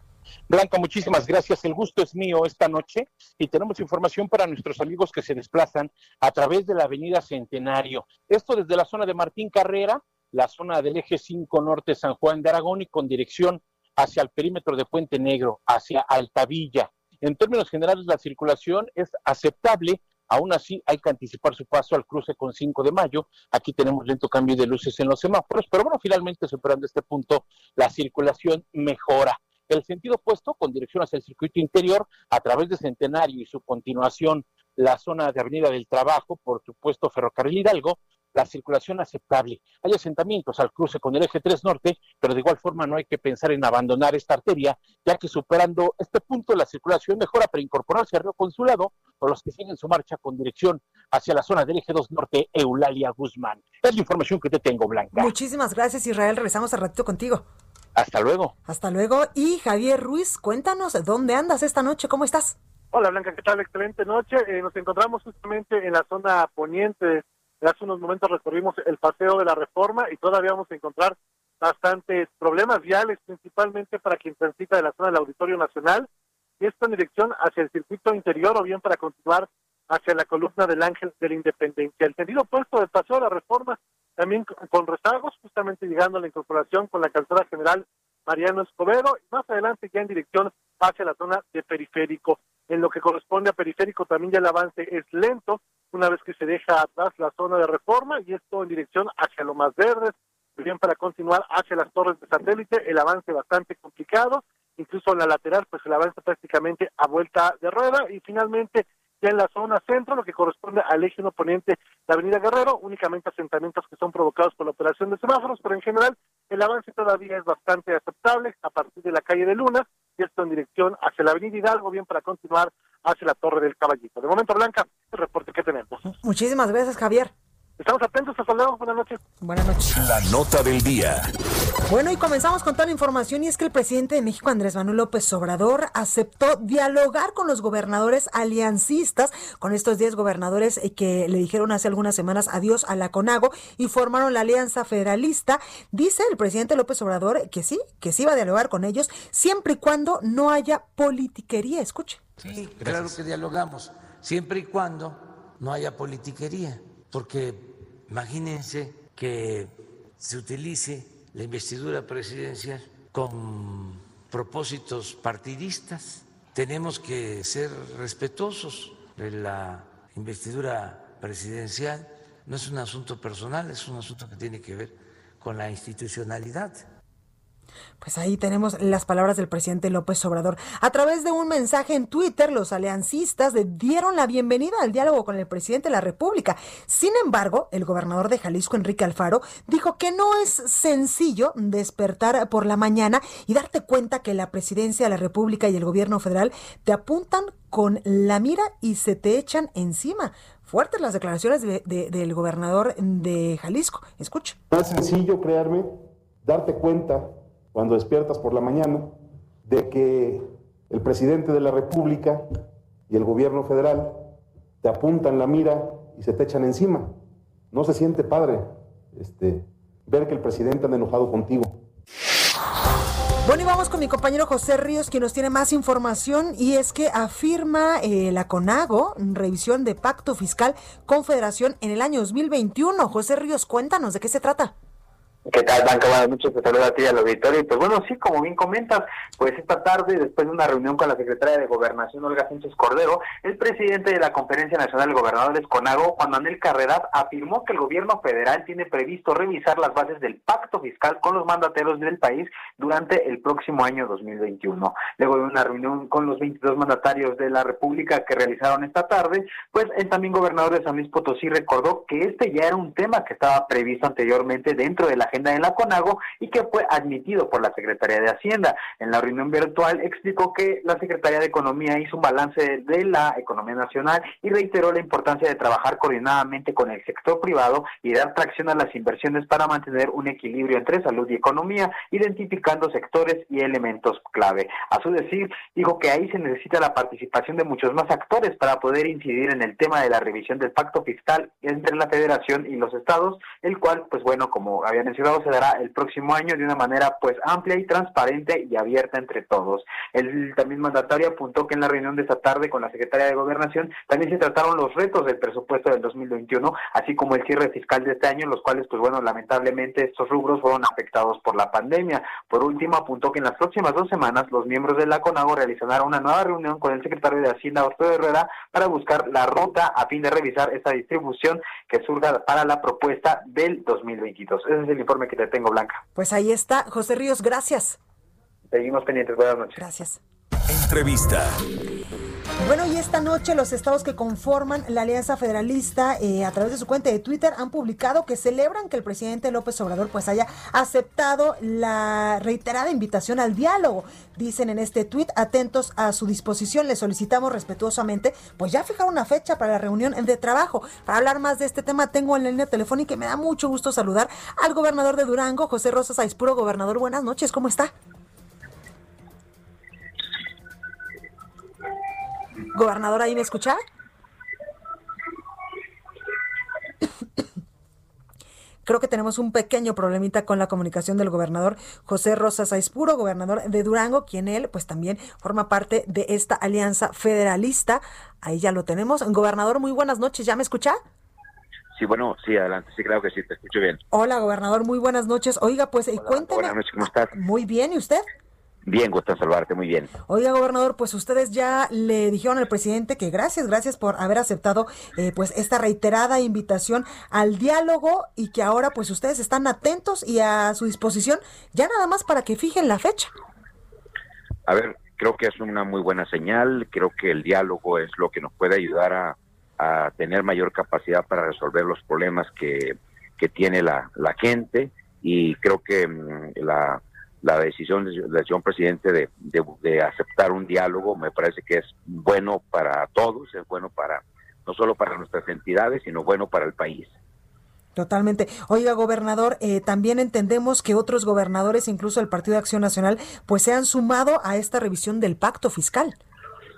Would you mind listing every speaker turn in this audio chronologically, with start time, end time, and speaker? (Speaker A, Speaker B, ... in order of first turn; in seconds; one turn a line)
Speaker A: 0.5-55.3
Speaker B: 55.1-57.5
Speaker A: 58.0-58.5
Speaker B: 58.7-62.6
Speaker C: 62.9-76.1
Speaker C: 76.6-126.0
Speaker B: 126.1-127.3
Speaker C: 127.8-129.2
Speaker B: 129.4-129.9
Speaker D: 129.9-131.2
Speaker B: 131.9-152.2
Speaker E: 152.4-176.8
Speaker B: 178.0-204.6
Speaker F: 204.7-212.5
Speaker F: 213.1-214.2
Speaker F: 214.8-217.1
Speaker F: 217.7-221.8
Speaker B: 223.4-234.8
Speaker G: 235.5-326.0
Speaker B: 326.1-328.0
Speaker G: 328.7-329.8
Speaker B: 329.8-330.2
Speaker D: 330.7-331.6
Speaker B: 332.6-357.9
Speaker B: 362.7-363.8
Speaker B: 368.9-381.0
Speaker H: 381.9-384.0
Speaker B: 384.1-386.8
Speaker H: 386.2-387.3
Speaker B: 387.3-388.2
Speaker H: 388.9-390.1
Speaker B: 390.3-403.3
Speaker H: 404.7-427.1
Speaker B: 427.9-436.1